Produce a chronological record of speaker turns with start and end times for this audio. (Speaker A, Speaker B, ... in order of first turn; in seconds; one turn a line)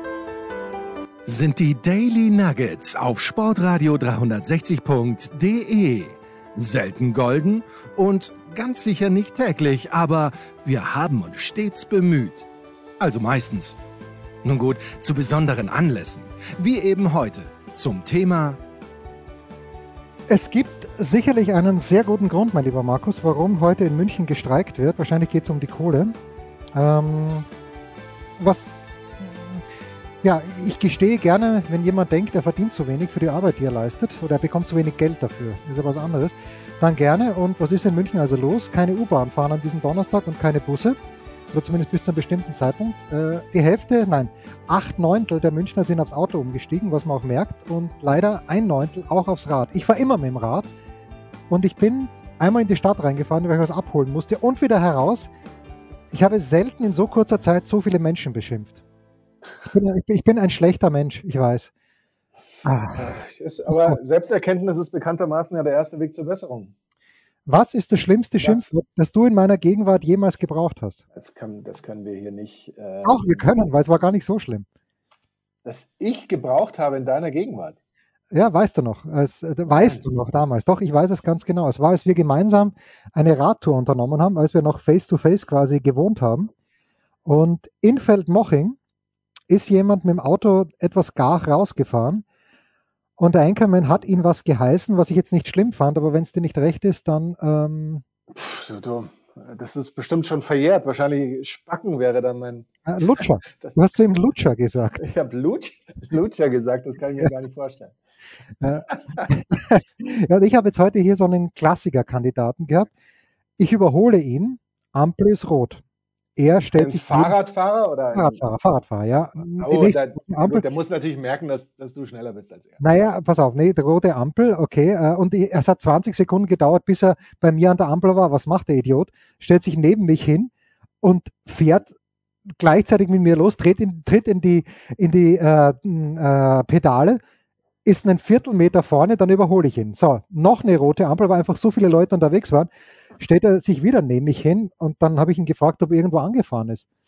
Speaker A: 1.3-12.5
Speaker A: 13.0-13.8
Speaker A: 14.4-18.6
Speaker B: 20.3-26.1
Speaker B: 26.8-27.5
Speaker B: 28.4-29.6
Speaker B: 30.2-41.0
Speaker B: 41.5-50.7
Speaker B: 51.5-55.3
Speaker B: 56.1-58.8
Speaker B: 59.7-61.7
Speaker B: 62.6-63.1
Speaker C: 62.9-66.7
Speaker B: 63.7-64.0
Speaker B: 67.5-71.0
Speaker C: 68.4-68.7
Speaker C: 71.1-73.5
Speaker B: 73.0-74.7
Speaker C: 75.7-77.8
Speaker B: 78.3-86.5
Speaker C: 79.8-80.0
Speaker B: 87.2-88.8
Speaker B: 89.5-92.2
Speaker B: 93.2-98.0
Speaker C: 98.3-103.8
Speaker B: 102.9-105.0
Speaker C: 105.0-108.0
Speaker B: 108.6-112.9
Speaker C: 108.9-109.3
Speaker B: 113.6-115.8
Speaker B: 116.4-117.3
Speaker C: 116.8-118.4
Speaker B: 118.1-120.6
Speaker C: 119.4-122.8
Speaker B: 122.8-130.5
Speaker B: 131.0-131.9
Speaker B: 132.6-137.2
Speaker B: 137.8-146.9